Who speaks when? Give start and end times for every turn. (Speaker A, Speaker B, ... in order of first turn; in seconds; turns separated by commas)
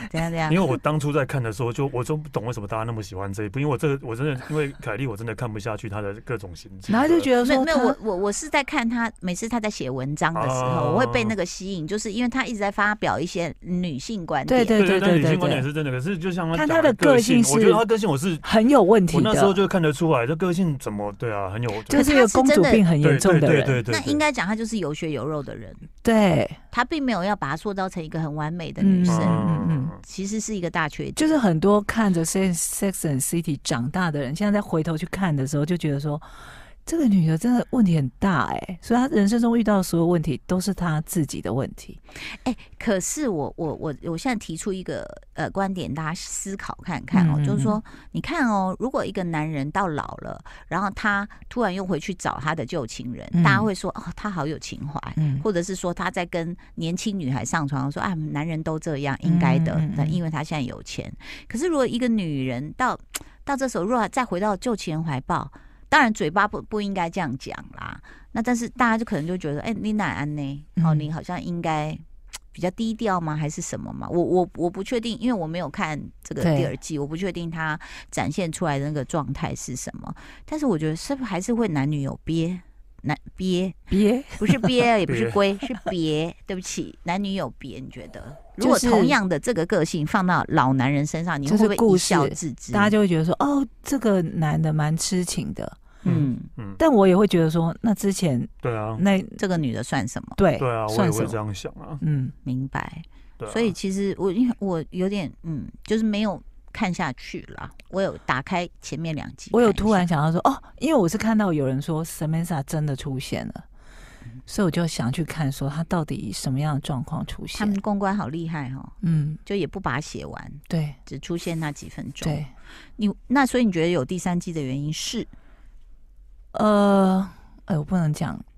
Speaker A: 0.1-0.6, Speaker B: 0.5-7.3, Speaker C: 6.9-8.0, Speaker A: 7.4-14.8, Speaker B: 10.3-11.3, Speaker C: 14.5-15.7, Speaker B: 14.7-18.5, Speaker C: 16.5-17.8, Speaker C: 18.4-19.6, Speaker B: 19.1-22.1, Speaker C: 21.9-23.8, Speaker A: 21.9-22.9, Speaker B: 23.0-24.2, Speaker A: 23.9-25.9, Speaker C: 26.0-26.6, Speaker A: 26.7-29.4, Speaker C: 28.8-30.0, Speaker B: 29.1-30.0, Speaker A: 30.0-31.4, Speaker C: 31.1-36.2, Speaker C: 36.9-42.0, Speaker A: 42.4-83.8, Speaker C: 47.1-47.8, Speaker C: 53.3-53.7, Speaker C: 55.2-55.4, Speaker C: 59.2-60.2, Speaker C: 70.8-71.1, Speaker C: 76.4-76.7, Speaker C: 83.9-84.7, Speaker A: 84.4-92.9, Speaker B: 85.1-85.4, Speaker C: 88.6-89.2, Speaker C: 91.4-95.8, Speaker B: 96.0-96.8, Speaker A: 96.0-96.5, Speaker C: 96.8-99.4, Speaker B: 98.6-99.0, Speaker A: 99.4-100.4, Speaker C: 100.4-101.4, Speaker B: 100.6-102.0, Speaker C: 102.0-102.3, Speaker A: 102.4-110.1, Speaker B: 103.4-103.7, Speaker C: 109.5-113.6, Speaker C: 114.5-117.8, Speaker A: 117.5-118.9, Speaker C: 119.0-119.4, Speaker A: 119.4-122.4, Speaker C: 120.7-121.0, Speaker C: 122.2-122.5, Speaker A: 123.0-125.3, Speaker C: 126.5-128.4